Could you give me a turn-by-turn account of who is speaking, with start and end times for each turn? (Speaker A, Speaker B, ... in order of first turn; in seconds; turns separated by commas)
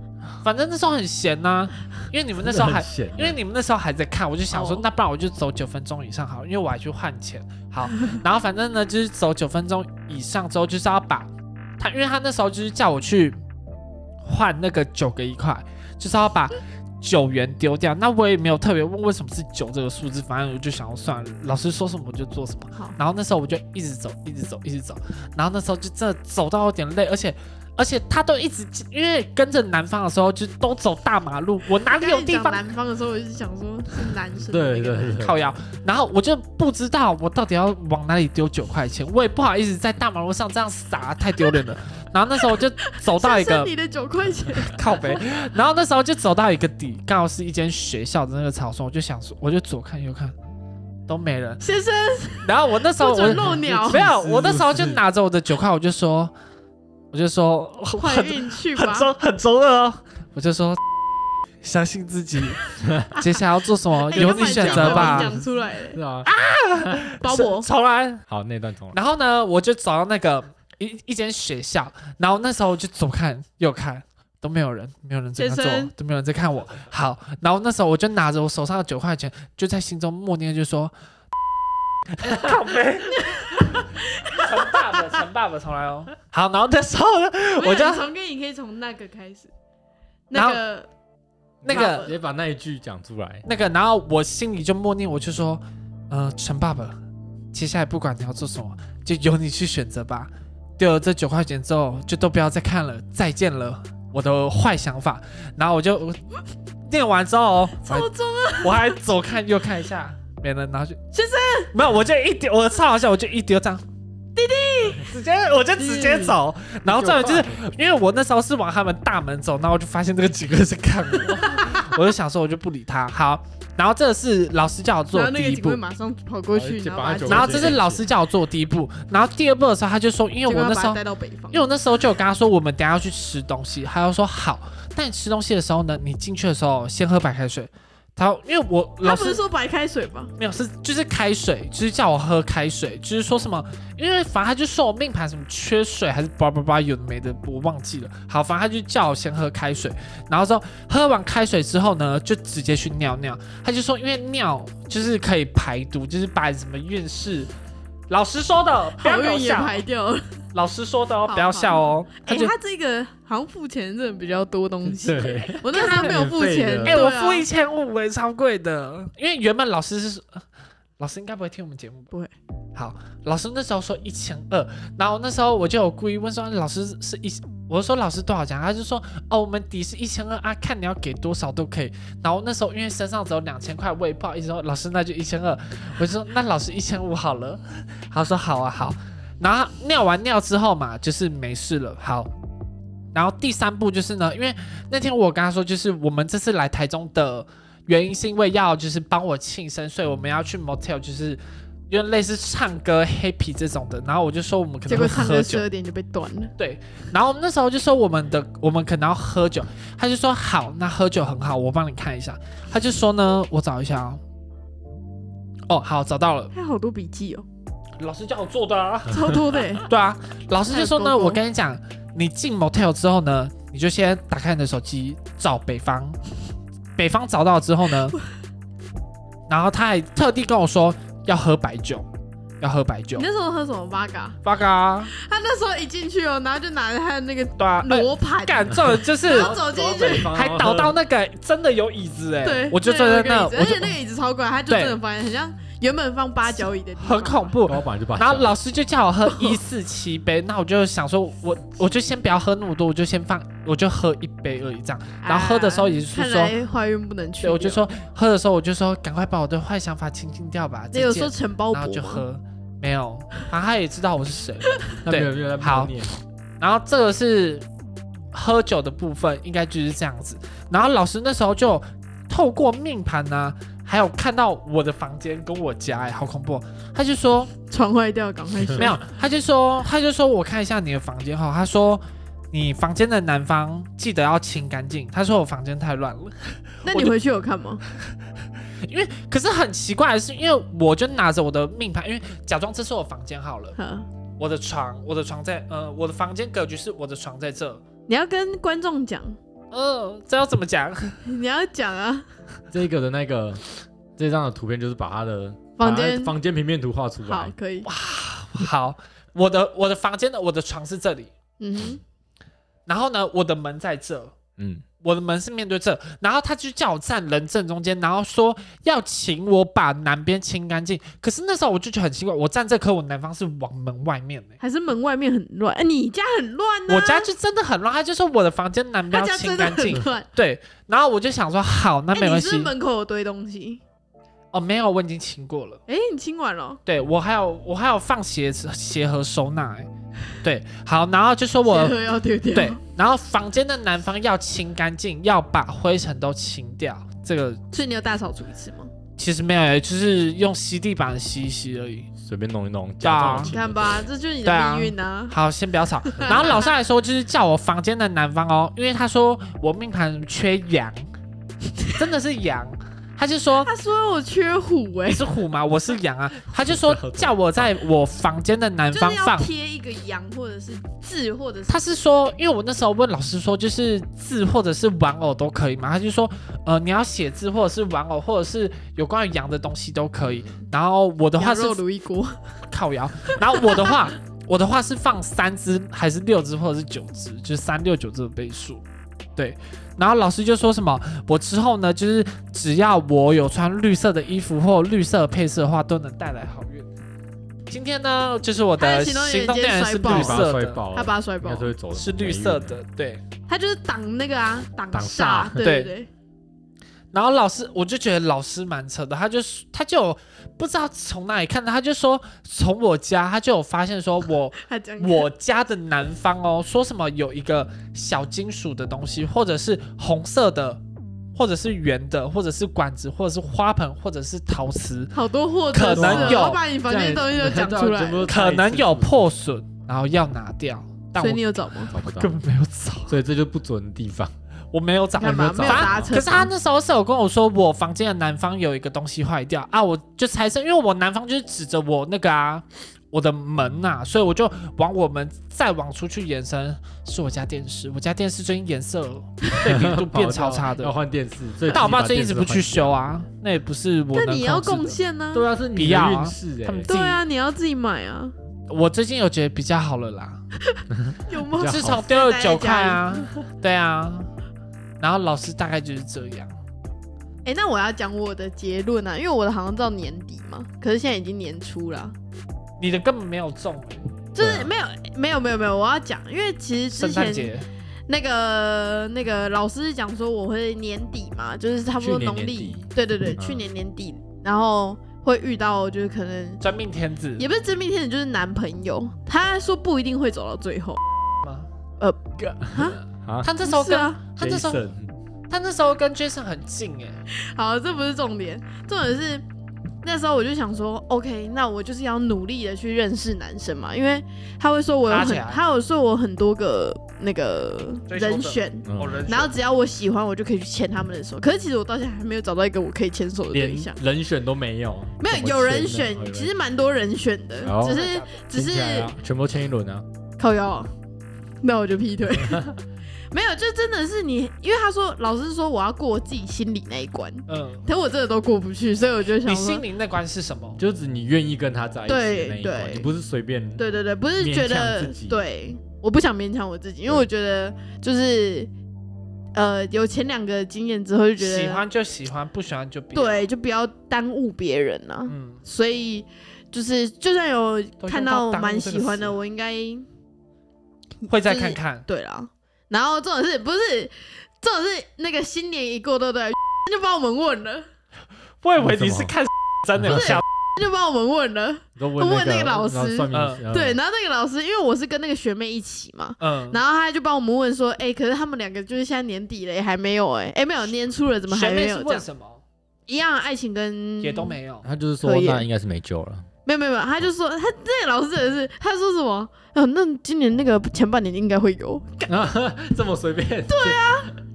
Speaker A: 0.4-13.4, Speaker B: 2.4-3.4, Speaker C: 4.5-4.8, Speaker A: 14.2-32.6, Speaker C: 31.9-35.2, Speaker B: 34.3-35.5, Speaker A: 35.2-43.7, Speaker C: 42.8-45.2, Speaker A: 44.6-50.3, Speaker A: 51.1-51.6, Speaker C: 51.6-54.0, Speaker A: 52.4-56.3, Speaker B: 53.3-55.0, Speaker A: 57.1-60.8, Speaker C: 57.9-59.1, Speaker A: 61.6-65.3, Speaker B: 62.8-63.1, Speaker C: 64.1-66.0, Speaker B: 64.1-67.0, Speaker A: 66.2-68.2, Speaker C: 67.2-67.7, Speaker B: 68.3-69.0, Speaker A: 68.9-80.9, Speaker C: 75.4-75.9, Speaker A: 82.1-88.0, Speaker C: 83.1-85.0, Speaker C: 87.6-89.5, Speaker C: 90.3-90.9, Speaker A: 90.3-90.6, Speaker B: 91.6-93.5, Speaker A: 91.6-92.1, Speaker C: 91.7-92.1, Speaker A: 93.5-97.0, Speaker A: 97.5-106.2, Speaker A: 106.9-108.1, Speaker C: 107.8-109.0, Speaker A: 108.6-111.0, Speaker C: 111.1-111.7, Speaker A: 111.7-113.8, Speaker C: 114.4-115.1, Speaker A: 115.0-125.8, Speaker C: 115.8-116.4, Speaker B: 116.9-117.7, Speaker C: 121.4-121.9, Speaker C: 125.1-127.8, Speaker B: 126.5-128.1, Speaker A: 127.3-131.0, Speaker C: 130.5-131.7, Speaker A: 131.5-139.4, Speaker C: 139.0-140.3, Speaker A: 140.4-157.5, Speaker A: 158.1-159.8, Speaker C: 159.0-160.2, Speaker A: 160.5-162.5, Speaker C: 161.3-167.4, Speaker B: 164.8-167.0, Speaker A: 165.5-166.2, Speaker A: 166.8-170.4, Speaker A: 171.0-172.1, Speaker A: 172.8-192.3, Speaker A: 193.1-205.6, Speaker C: 204.9-206.5, Speaker A: 206.6-214.2, Speaker A: 215.7-216.5, Speaker C: 216.5-217.4, Speaker A: 218.0-226.2, Speaker C: 219.1-219.9, Speaker C: 220.7-221.4, Speaker A: 226.9-228.2, Speaker A: 229.5-232.1, Speaker A: 232.6-233.3, Speaker C: 233.1-234.4, Speaker A: 234.4-235.1, Speaker C: 235.1-240.3, Speaker A: 237.6-239.6, Speaker B: 239.3-241.0, Speaker A: 240.3-243.9, Speaker C: 242.4-247.5, Speaker A: 244.7-245.0, Speaker A: 247.0-256.5, Speaker B: 247.7-248.6, Speaker C: 249.3-249.6, Speaker C: 255.2-257.9, Speaker A: 257.4-265.9, Speaker C: 260.9-262.2, Speaker B: 265.0-266.2, Speaker A: 266.6-267.6, Speaker A: 268.3-277.5, Speaker C: 277.7-279.0, Speaker A: 278.8-287.1, Speaker C: 286.8-287.8, Speaker A: 288.9-293.8, Speaker C: 293.8-294.1, Speaker A: 294.4-297.8, Speaker C: 298.1-299.4, Speaker A: 299.7-301.2, Speaker C: 301.2-302.2, Speaker B: 302.7-303.6, Speaker B: 304.2-307.5, Speaker C: 305.8-306.3, Speaker C: 307.2-307.9, Speaker A: 307.9-311.3, Speaker C: 311.6-312.0, Speaker A: 312.9-314.4, Speaker B: 314.6-314.9, Speaker A: 315.0-324.6, Speaker C: 324.6-327.3, Speaker A: 326.9-332.7, Speaker C: 329.1-330.3, Speaker C: 332.1-333.8, Speaker A: 334.5-335.8, Speaker C: 335.9-336.8, Speaker A: 336.9-339.9, Speaker A: 340.4-342.0, Speaker C: 341.6-342.8, Speaker A: 342.5-347.6, Speaker C: 347.7-348.9, Speaker A: 349.2-352.1, Speaker B: 352.2-354.0, Speaker A: 353.0-353.5, Speaker C: 353.4-355.4, Speaker A: 354.4-361.0, Speaker C: 356.1-356.7, Speaker A: 361.9-363.7, Speaker C: 363.6-365.3, Speaker A: 365.1-369.5, Speaker B: 366.6-367.8, Speaker C: 368.9-371.9, Speaker A: 371.7-381.8, Speaker C: 381.4-382.4, Speaker A: 382.7-388.8, Speaker C: 383.3-383.9, Speaker A: 389.4-396.9, Speaker A: 397.7-400.8, Speaker C: 398.8-401.7, Speaker B: 400.1-402.8, Speaker A: 401.9-403.2, Speaker C: 403.5-406.1, Speaker B: 404.9-405.6, Speaker A: 405.6-405.9, Speaker A: 407.1-420.8, Speaker C: 414.6-415.3, Speaker A: 421.4-425.1, Speaker C: 425.1-428.3, Speaker A: 425.7-426.6, Speaker B: 425.9-429.3, Speaker A: 428.3-433.2, Speaker C: 431.1-431.9, Speaker B: 431.9-432.4, Speaker B: 433.1-434.3, Speaker A: 434.7-450.9, Speaker C: 435.2-436.5, Speaker B: 435.2-436.2, Speaker B: 449.6-452.9, Speaker A: 451.7-455.0, Speaker C: 454.1-455.5, Speaker B: 455.3-456.9, Speaker A: 455.7-457.2, Speaker C: 456.9-458.3, Speaker A: 458.7-460.4, Speaker C: 460.7-463.1, Speaker B: 460.9-462.0, Speaker A: 461.6-464.3, Speaker A: 465.0-466.5, Speaker C: 467.4-472.1, Speaker A: 472.8-474.1, Speaker C: 474.3-477.5, Speaker B: 474.4-474.7, Speaker A: 476.9-477.7, Speaker C: 478.1-486.6, Speaker B: 482.0-483.6, Speaker A: 486.6-487.4, Speaker C: 487.4-491.0, Speaker A: 491.4-491.7, Speaker C: 492.0-493.0, Speaker B: 492.7-493.5, Speaker A: 493.4-494.8, Speaker C: 493.6-494.2, Speaker B: 494.4-495.1, Speaker A: 495.5-497.2, Speaker C: 497.3-499.4, Speaker C: 500.0-514.0, Speaker A: 505.1-505.6, Speaker A: 508.1-509.5, Speaker B: 508.9-509.3, Speaker B: 513.5-516.5, Speaker C: 515.2-519.1, Speaker B: 517.6-520.0, Speaker A: 517.7-518.4, Speaker C: 520.4-520.9, Speaker C: 521.6-522.7, Speaker B: 522.4-522.7, Speaker C: 523.3-529.8, Speaker A: 527.5-527.9, Speaker A: 529.4-530.8, Speaker B: 530.8-535.4, Speaker C: 532.1-533.1, Speaker C: 533.8-538.7, Speaker C: 539.5-541.8, Speaker A: 541.4-543.5, Speaker C: 543.1-550.0, Speaker A: 545.3-545.6, Speaker A: 548.0-549.4, Speaker C: 551.2-557.9, Speaker A: 551.3-552.0, Speaker A: 558.6-560.4, Speaker B: 558.8-559.4, Speaker B: 560.0-560.3, Speaker C: 560.0-572.2, Speaker B: 562.0-564.0, Speaker A: 563.3-563.6, Speaker A: 566.4-566.8, Speaker A: 571.5-572.6, Speaker C: 573.1-574.6, Speaker A: 574.2-574.9, Speaker B: 574.8-576.5, Speaker C: 575.2-575.6, Speaker C: 576.6-582.3, Speaker B: 582.3-584.3, Speaker C: 583.7-584.3